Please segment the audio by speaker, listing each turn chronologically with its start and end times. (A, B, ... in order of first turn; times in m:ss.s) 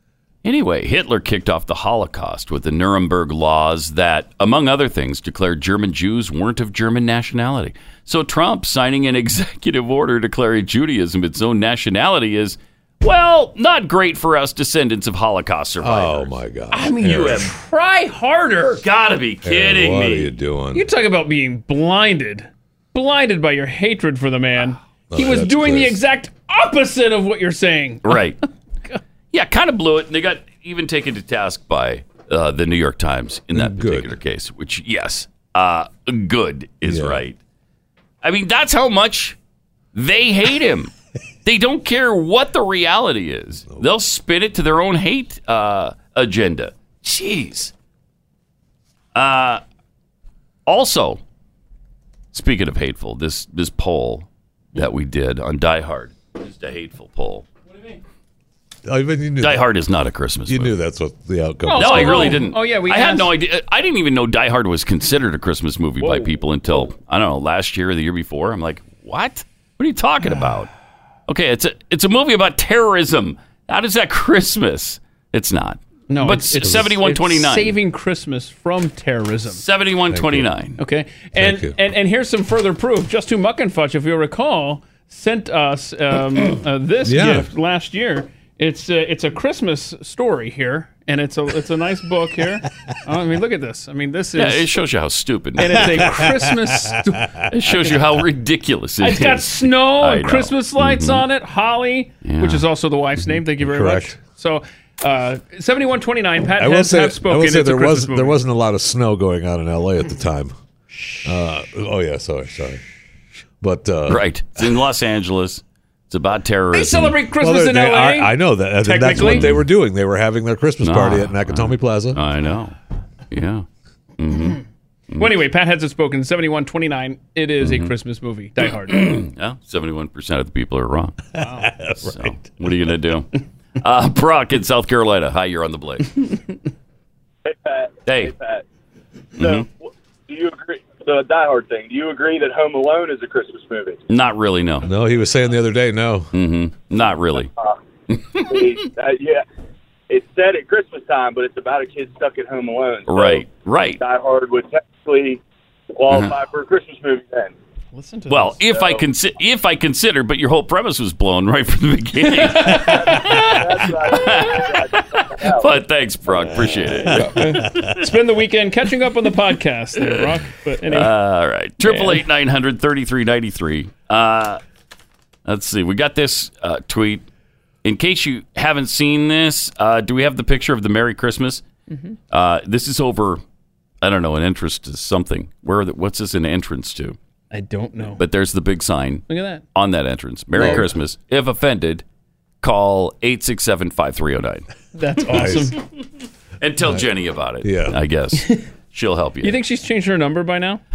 0:00.4-0:16.4 A
0:15.8-0:17.5 B
0:16.7-0:18.8 C
0:18.8-0:20.3 A
0:19.4-0:20.9 B
0:20.7-0:28.3 C
0:25.1-0:26.0 B
0:28.0-0:28.4 A
0:29.3-0:37.4 A
0:33.5-0:34.1 B
0:36.8-0:37.2 B
0:38.2-0:39.4 A
0:39.9-0:40.9 A
0:41.4-0:47.7 A
0:49.2-0:49.6 A
0:50.7-0:51.2 A
0:52.3-0:57.5 A
0:57.7-0:58.0 C
0:58.9-0:59.7 B
0:59.4-1:00.8 A
1:00.5-1:02.4 B
1:01.7-1:03.3 C
1:01.8-1:10.7 A
1:06.0-1:06.8 C
1:11.3-1:17.8 A
1:16.1-1:19.6 C
1:19.5-1:20.8 A
1:20.1-1:20.5 B
1:20.8-1:34.7 C
1:21.4-1:21.8 B
1:27.0-1:27.5 B
1:34.4-1:36.2 A
1:35.6-1:38.0 C
1:35.9-1:37.0 B
1:37.5-1:41.2 A
1:39.0-1:48.4 C
1:42.2-1:42.6 A
1:43.3-1:44.2 B
1:46.6-1:50.5 B
1:51.2-1:52.8 B
1:53.6-1:54.2 B
1:54.1-1:57.2 A
1:56.7-1:59.6 C
1:57.4-2:02.2 B
1:59.1-1:59.6 A
2:00.8-2:02.8 A
2:03.3-2:03.6 A
2:04.2-2:05.3 A
2:05.2-2:09.2 C
2:07.6-2:07.9 A
2:08.9-2:11.2 A
2:11.4-2:12.4 B
2:11.4-2:11.7 C
2:12.0-2:16.1 A
2:17.4-2:18.6 D
2:18.0-2:18.3 A
2:19.4-2:19.7 A
2:19.4-2:24.0 D
2:24.1-2:24.9 A
2:24.8-2:26.3 B
2:26.3-2:27.5 A
2:27.5-2:27.8 D
2:28.1-2:28.6 A
2:28.4-2:29.4 D
2:30.1-2:33.5 D
2:33.1-2:34.0 A
2:34.0-2:35.4 D
2:36.0-2:37.6 D
2:37.9-2:38.6 C
2:38.3-2:47.7 A
2:38.7-2:39.0 D
2:42.4-2:43.4 C
2:42.8-2:45.7 D
2:47.1-2:48.0 B
2:47.3-2:51.1 C
2:50.9-2:54.6 A
2:51.8-2:52.3 C
2:55.5-2:57.3 A
2:57.8-3:01.6 A
3:01.9-3:02.2 C
3:02.3-3:03.4 A
3:04.0-3:07.2 A
3:07.5-3:08.2 C
3:08.2-3:12.0 A
3:09.3-3:09.6 C
3:10.6-3:10.9 B
3:12.6-3:14.7 A
3:15.0-3:15.8 C
3:15.3-3:15.7 B
3:16.6-3:19.6 A
3:17.6-3:18.0 B
3:19.4-3:20.8 C